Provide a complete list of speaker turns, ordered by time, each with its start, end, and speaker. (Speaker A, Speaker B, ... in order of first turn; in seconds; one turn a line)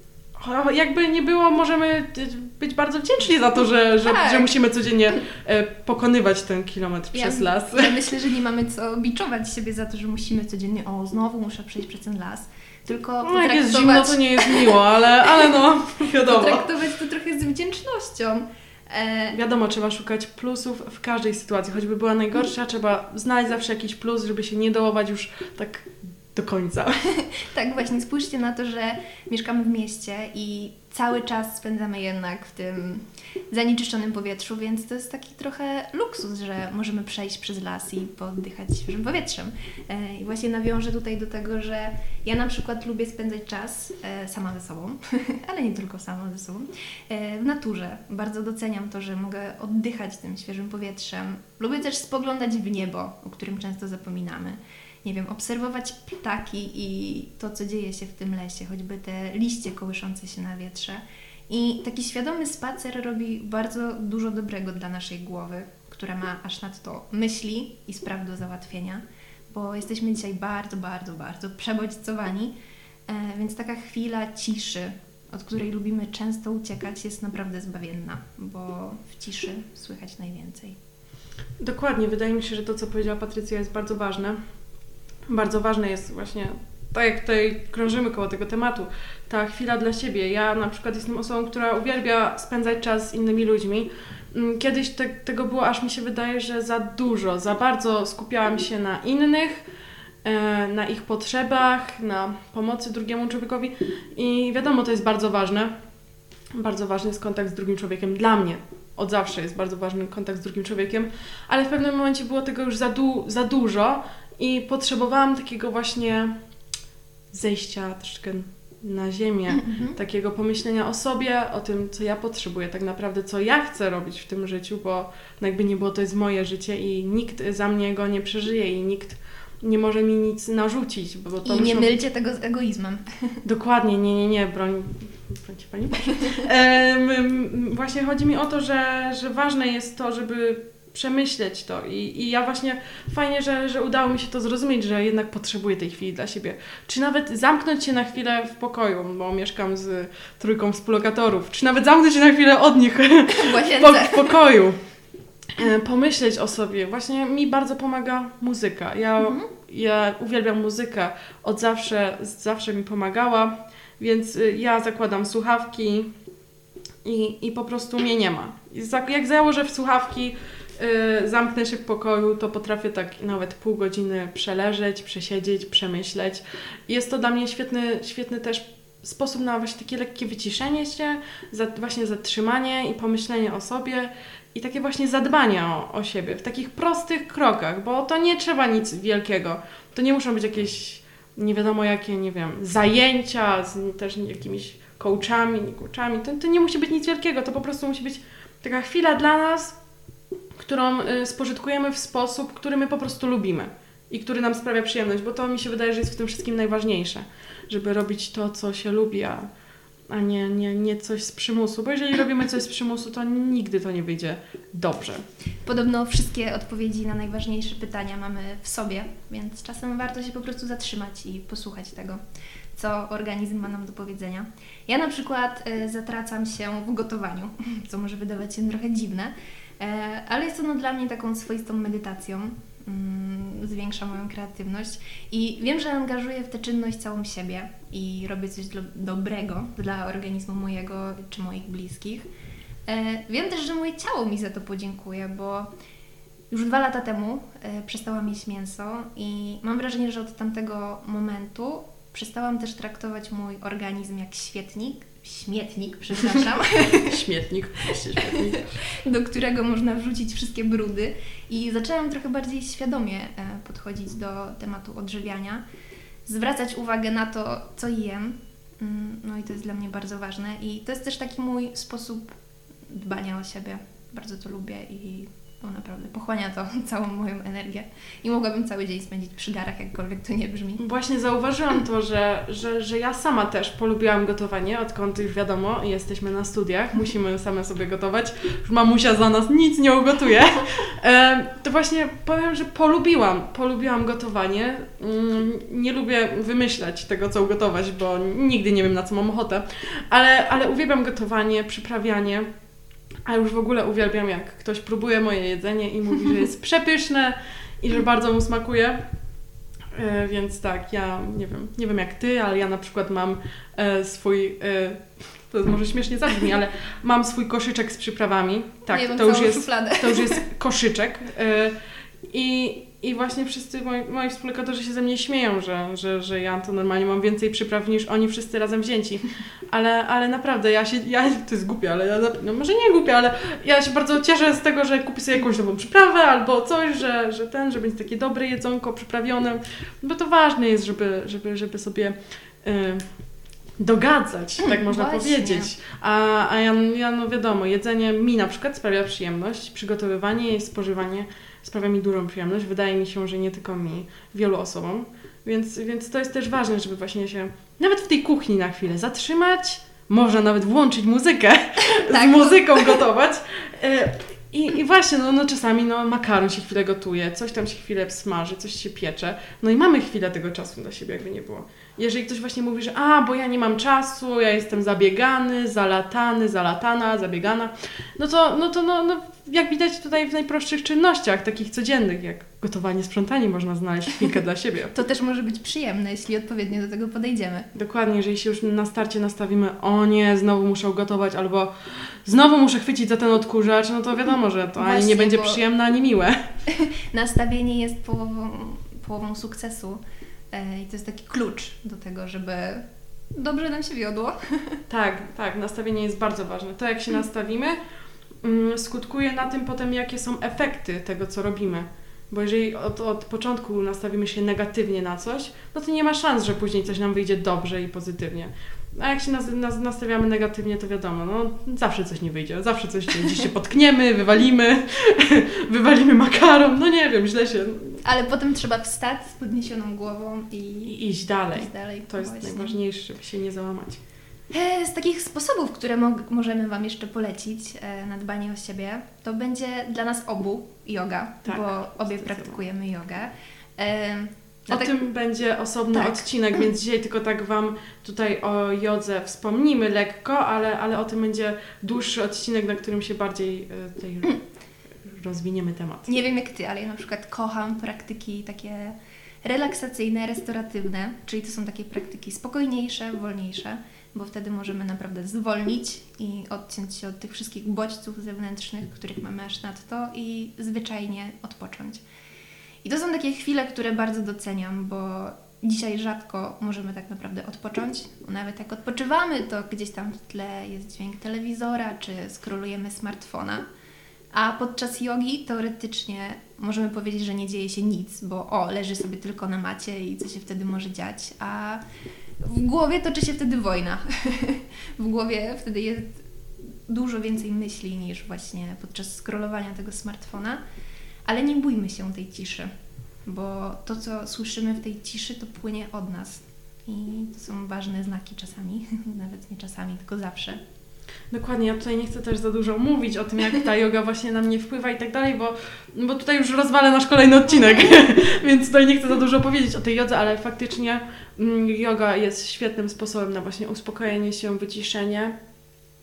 Speaker A: 0.4-8.0
Speaker B: 4.0-4.5
Speaker B: 7.1-14.8
Speaker A: 13.2-16.7
Speaker B: 16.1-19.4
Speaker A: 19.3-27.1
Speaker B: 27.1-72.5
Speaker B: 73.1-80.8
Speaker A: 81.6-84.4
Speaker A: 85.3-99.6
Speaker A: 100.2-105.7
Speaker A: 106.5-116.3
Speaker A: 117.3-132.0
Speaker B: 119.5-120.0
Speaker B: 131.4-133.4
Speaker A: 133.4-154.8
Speaker B: 153.3-154.3
Speaker A: 155.5-166.1
Speaker B: 159.2-159.5
Speaker A: 167.0-199.8
Speaker A: 200.6-209.5
Speaker A: 210.1-215.2
Speaker B: 215.7-222.2
Speaker B: 222.8-242.3
Speaker B: 242.9-245.7
Speaker B: 246.5-257.2
Speaker A: 256.9-258.8
Speaker B: 258.2-265.6
Speaker B: 266.3-272.4
Speaker B: 272.9-280.8
Speaker A: 280.8-302.5
Speaker A: 303.3-309.0
Speaker A: 309.9-321.8
Speaker B: 318.9-320.4
Speaker A: 322.3-343.1
Speaker A: 343.8-384.9
Speaker B: 344.6-345.7
Speaker B: 361.8-363.0
Speaker B: 384.9-387.7
Speaker A: 387.8-396.4
Speaker B: 394.8-395.6
Speaker B: 396.7-400.0
Speaker B: 400.5-404.8
Speaker A: 404.9-407.8
Speaker A: 408.4-428.0
Speaker B: 428.0-432.8
Speaker A: 430.9-434.0
Speaker B: 434.5-444.9
Speaker A: 441.5-442.6
Speaker A: 444.7-454.4
Speaker B: 445.9-446.2
Speaker A: 455.1-456.1
Speaker B: 456.1-472.0
Speaker B: 472.8-483.7
Speaker B: 484.3-491.8
Speaker B: 492.4-496.2
Speaker B: 496.9-500.6
Speaker B: 501.3-502.7
Speaker B: 503.3-510.6
Speaker A: 511.3-525.4